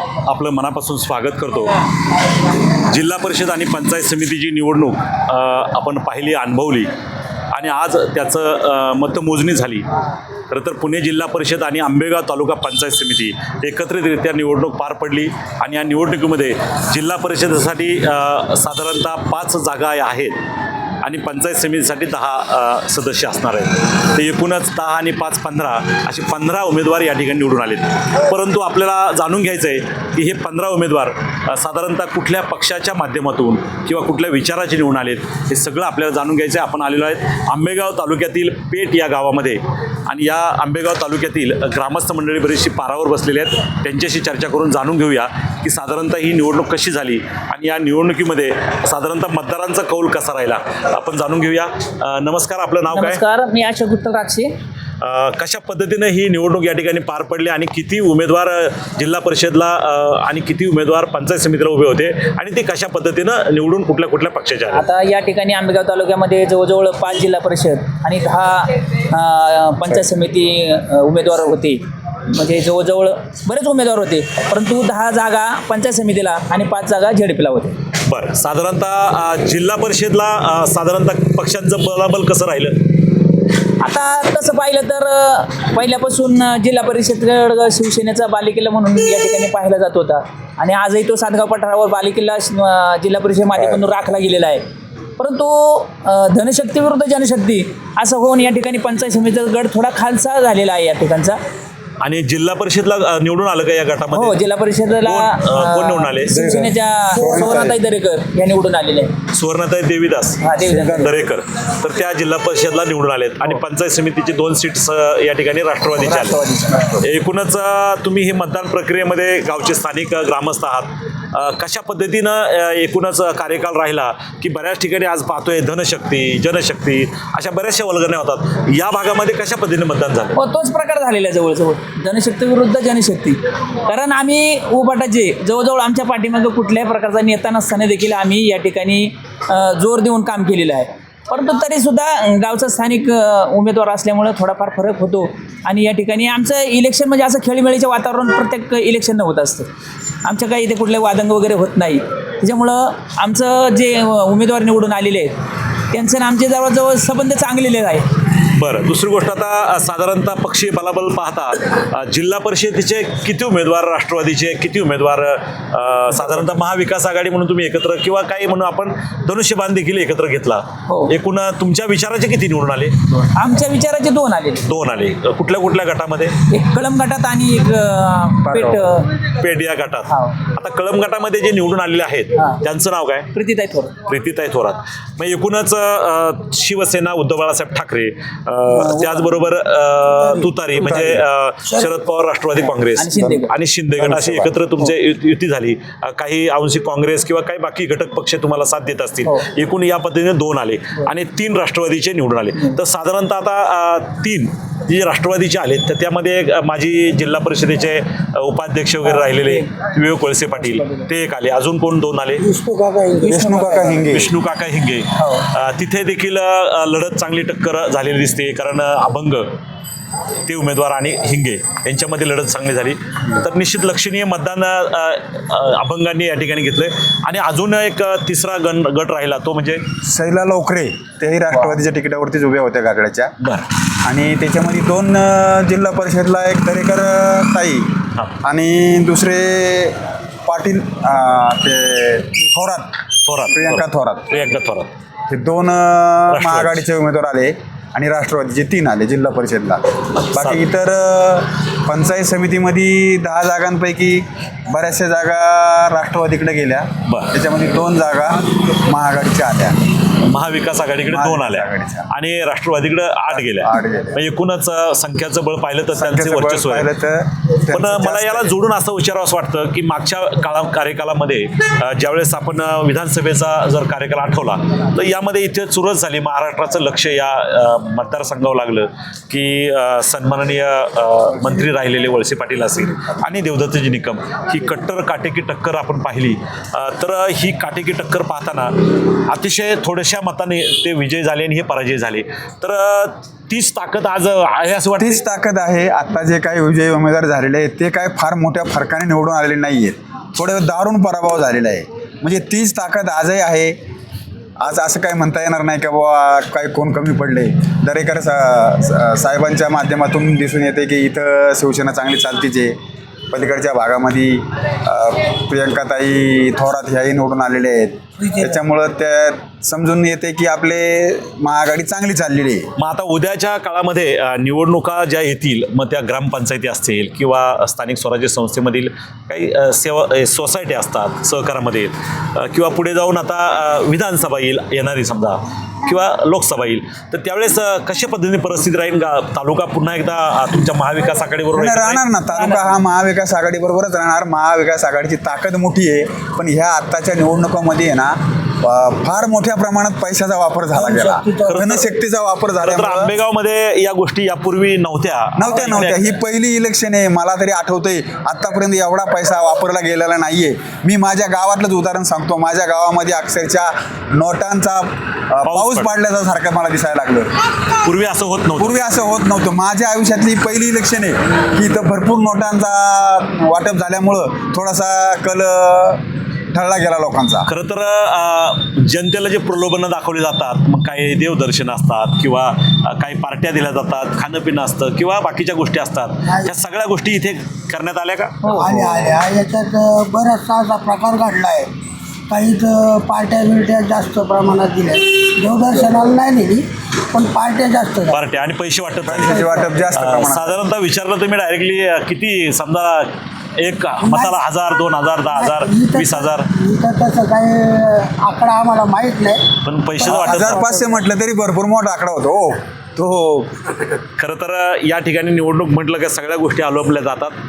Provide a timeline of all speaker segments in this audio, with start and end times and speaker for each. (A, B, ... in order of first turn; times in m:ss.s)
0:00.2-0:01.8 A
0:02.7-0:06.9 A
0:07.5-0:09.9 A
0:10.5-0:20.4 A
0:21.0-0:53.2 A
0:52.9-0:54.5 B
0:55.0-1:04.8 A
1:04.7-1:17.8 B
1:18.0-1:22.8 A
1:23.8-1:34.6 B
1:35.2-1:41.4 B
1:42.0-1:44.4 A
1:44.1-1:49.1 B
1:45.0-1:46.4 A
1:46.3-1:47.8 C
1:47.1-1:47.7 D
1:49.3-1:56.4 A
1:50.4-1:51.1 B
1:50.6-1:51.3 C
1:56.0-1:57.1 C
1:57.0-2:10.4 A
2:10.3-2:29.7 B
2:30.2-2:35.3 B
2:35.9-2:38.1 B
2:38.4-2:52.9 A
2:50.9-2:51.1 B
2:53.3-2:54.7 B
2:54.6-2:56.3 A
2:56.5-2:59.1 B
2:58.4-2:58.8 C
2:59.3-3:03.3 A
3:00.1-3:00.4 B
3:03.3-3:03.9 B
3:04.0-3:32.4 A
3:08.7-3:09.5 B
3:10.2-3:10.7 D
3:10.8-3:11.2 C
3:11.6-3:11.9 D
3:12.9-3:13.5 B
3:13.1-3:14.9 C
3:29.0-3:29.6 B
3:30.6-3:31.0 B
3:32.4-3:34.0 D
3:33.2-3:34.3 C
3:34.0-3:39.5 A
3:35.2-3:35.4 B
3:40.4-3:49.8 A
3:50.0-3:53.3 C
3:53.4-3:53.7 A
3:54.0-3:57.9 C
3:58.4-4:02.9 C
4:03.2-4:04.9 A
4:03.5-4:04.3 C
4:05.3-4:19.8 C
4:06.3-4:06.9 A
4:10.3-4:10.6 A
4:17.0-4:17.3 A
4:20.2-4:26.9 A
4:21.1-4:22.1 C
4:23.3-4:24.2 C
4:25.9-4:28.5 C
4:27.7-4:55.2 A
4:55.0-5:03.8 C
5:04.6-5:12.8 C
5:13.3-5:22.7 C
5:18.2-5:18.6 D
5:22.8-5:42.0 A
5:41.5-5:53.1 C
5:42.3-5:42.7 B
5:50.7-5:51.6 D
5:51.4-5:51.8 A
5:52.6-5:56.1 A
5:55.4-6:07.3 C
6:05.4-6:05.9 A
6:07.8-6:08.8 A
6:08.6-6:16.0 C
6:16.5-6:17.5 C
6:17.4-6:28.4 A
6:26.2-6:26.5 D
6:28.4-6:28.8 B
6:28.5-6:31.7 D
6:32.3-6:38.2 D
6:38.1-6:46.5 A
6:39.0-6:40.6 C
6:39.2-6:39.8 D
6:44.0-6:44.4 D
6:45.3-6:49.4 D
6:49.6-6:50.6 A
6:50.0-6:51.0 D
6:50.0-6:53.5 C
6:54.2-6:57.3 A